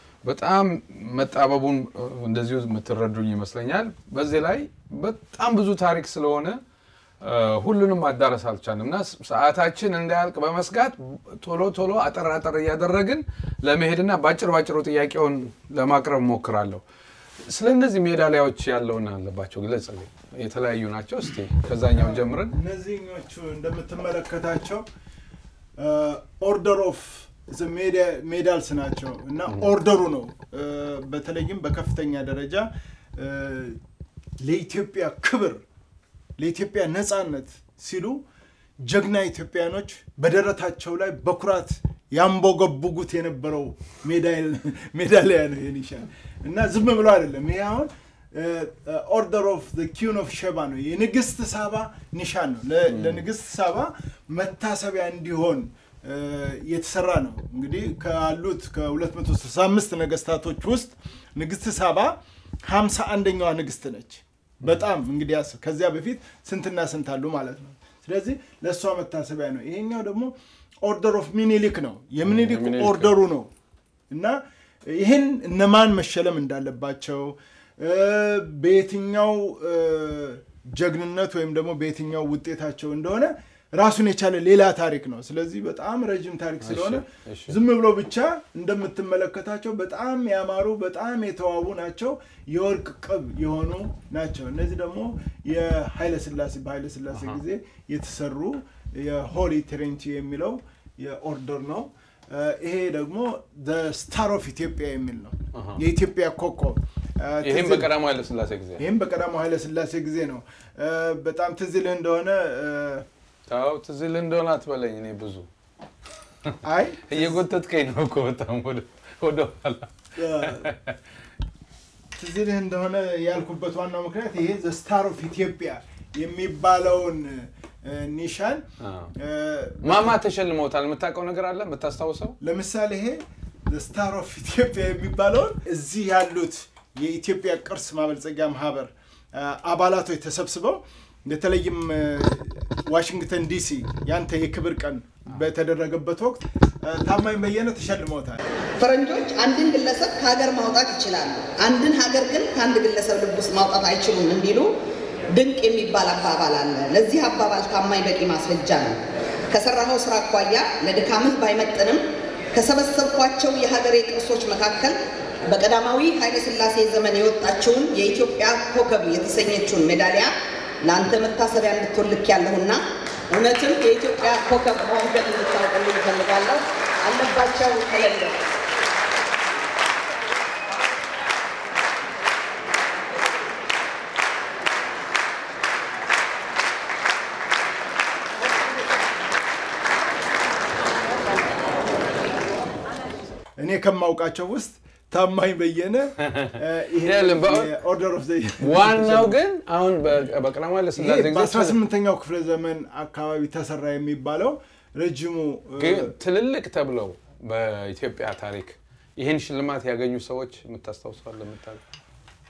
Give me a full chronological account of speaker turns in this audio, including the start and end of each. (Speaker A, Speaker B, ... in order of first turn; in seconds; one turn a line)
Speaker A: 0.2-6.6
Speaker A: 7.2-16.8
Speaker A: 17.4-22.6
Speaker B: 21.9-24.9
Speaker B: 25.8-33.8
Speaker B: 34.4-35.6
Speaker B: 36.4-38.2
Speaker B: 38.8-73.5
Speaker A: 52.9-53.2
Speaker A: 72.2-73.2
Speaker B: 74.1-107.9
Speaker A: 86.6-87.6
Speaker A: 97.1-97.4
Speaker A: 105.5-105.8
Speaker A: 107.4-108.8
Speaker B: 108.8-113.1
Speaker A: 113.5-115.5
Speaker A: 116.4-121.0
Speaker B: 116.6-117.4
Speaker B: 120.2-120.7
Speaker B: 122.2-128.7
Speaker A: 128.8-129.1
Speaker B: 129.2-130.2
Speaker A: 129.8-132.4
Speaker B: 132.4-148.4
Speaker C: 148.8-154.7
Speaker C: 155.3-159.0
Speaker C: 159.5-178.4
Speaker B: 193.6-199.4
Speaker A: 196.3-197.8
Speaker A: 198.6-201.8
Speaker B: 201.0-206.1
Speaker A: 205.8-211.8